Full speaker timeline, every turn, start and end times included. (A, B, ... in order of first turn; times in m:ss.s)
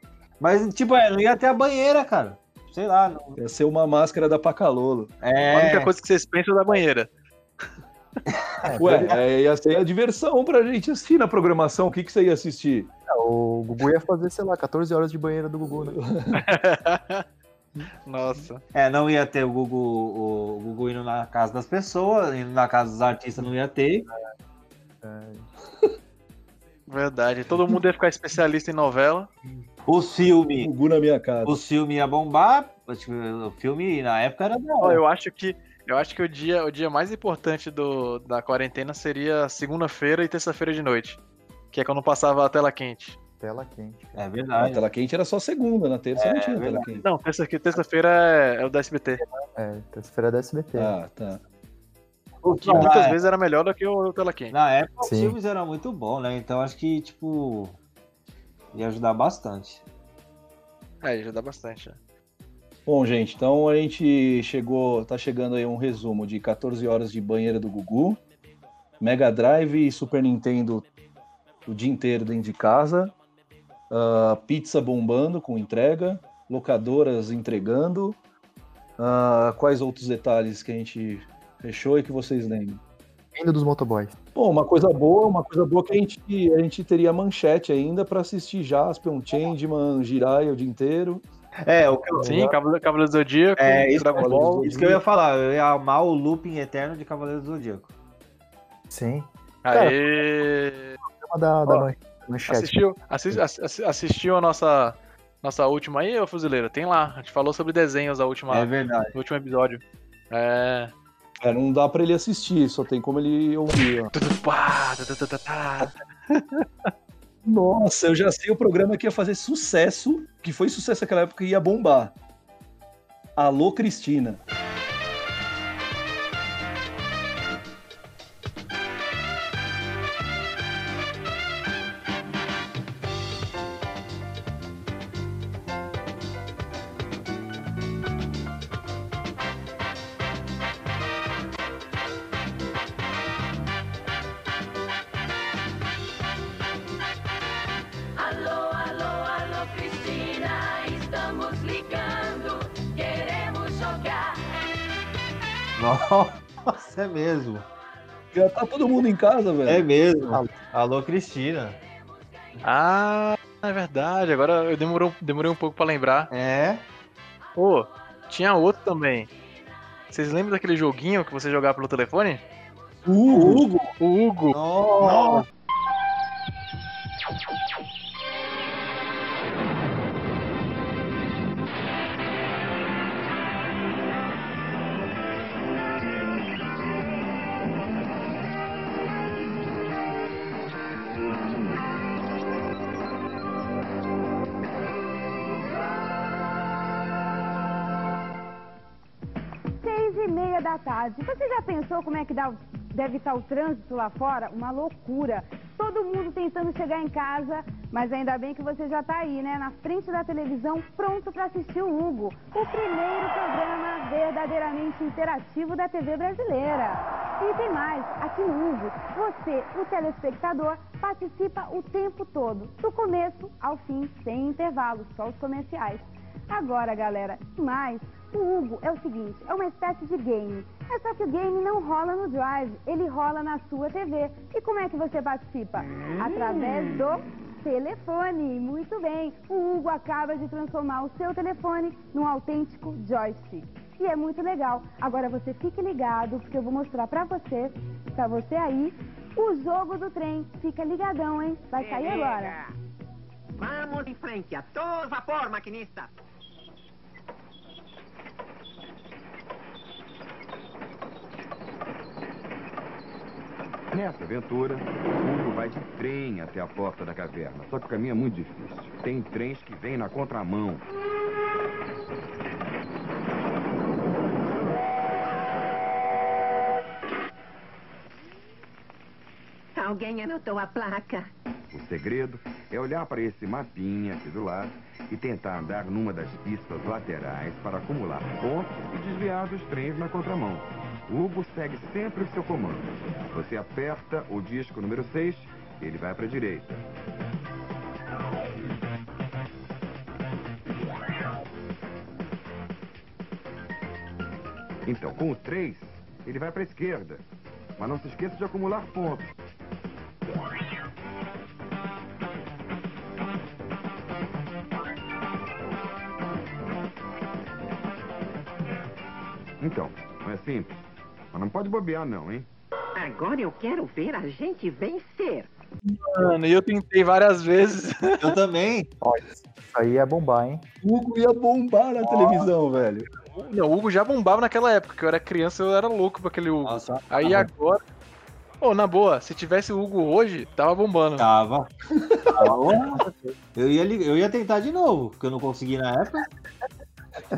0:00.4-0:03.4 A
0:03.4-0:05.1 B
0:05.2-0:05.9 A
0:05.5-0:07.1 C
0:08.3-0:09.2 A
0:08.6-0:09.2 D
0:08.8-0:12.9 B
0:13.1-0:16.0 D
0:15.8-0:16.4 B
0:16.3-0:17.2 C
0:18.0-0:18.6 C
0:18.7-0:24.0 A
0:25.0-0:25.5 D
0:26.9-0:29.3 C
0:29.9-0:30.7 A
0:30.6-0:31.6 B
0:31.4-0:35.0 A
0:34.8-0:41.2 C
0:41.7-0:43.2 C
0:43.4-0:44.2 D
0:44.2-0:44.8 A
0:44.6-0:47.0 B
0:46.2-0:47.0 A
0:47.0-0:49.2 C
0:49.6-0:50.9 D
0:50.8-0:51.4 B
0:52.4-0:53.2 A
0:52.6-0:54.5 C
0:54.5-0:57.8 A
0:55.0-0:55.4 D
0:58.7-0:59.8 A
1:01.0-1:02.0 C
1:02.8-1:08.2 B
1:09.0-1:10.9 B
1:11.6-1:13.1 B
1:13.9-1:18.2 B
1:19.0-1:22.8 B
1:23.3-1:24.1 D
1:24.3-1:31.2 B
1:31.6-1:32.3 A
1:32.2-1:32.6 D
1:32.2-1:34.7 C
1:33.6-1:37.9 A
1:34.7-1:34.9 D
1:38.9-1:40.0 D
1:39.6-1:41.0 C
1:41.0-1:42.7 D
1:42.5-1:50.9 C
1:48.5-1:49.1 A
1:51.4-1:54.1 B
1:54.1-1:56.9 C
1:57.4-2:02.1 B
2:03.4-2:04.4 B
2:35.8-2:37.7 A
2:38.3-2:39.9 B
2:39.6-2:41.8 A
2:40.3-2:40.6 D
2:42.6-2:46.3 C
2:46.3-2:46.8 A
2:47.6-2:49.3 C
2:50.1-2:52.4 C
2:53.0-2:53.7 B
2:53.3-2:53.9 A
2:54.0-2:55.4 C
2:54.5-2:55.4 A
3:19.8-4:12.6 E
4:11.7-4:12.7 F
4:13.6-4:16.1 F
4:23.9-4:30.8 G
4:39.8-4:41.3 F
4:41.7-4:56.8 G
5:04.8-5:07.2 G
5:07.8-5:09.3 G
5:19.6-5:20.8 G
5:21.3-5:22.5 G
5:23.0-5:25.5 F
5:25.8-5:28.2 C
5:28.2-5:28.9 A
5:29.0-5:30.6 D
5:30.8-5:33.1 B
5:32.0-5:32.5 A
5:33.3-5:37.8 C
5:36.6-5:37.5 A
5:38.6-5:41.2 C
5:41.2-5:41.7 A
5:42.3-5:43.0 A
5:43.0-5:43.3 D
5:43.5-5:46.2 A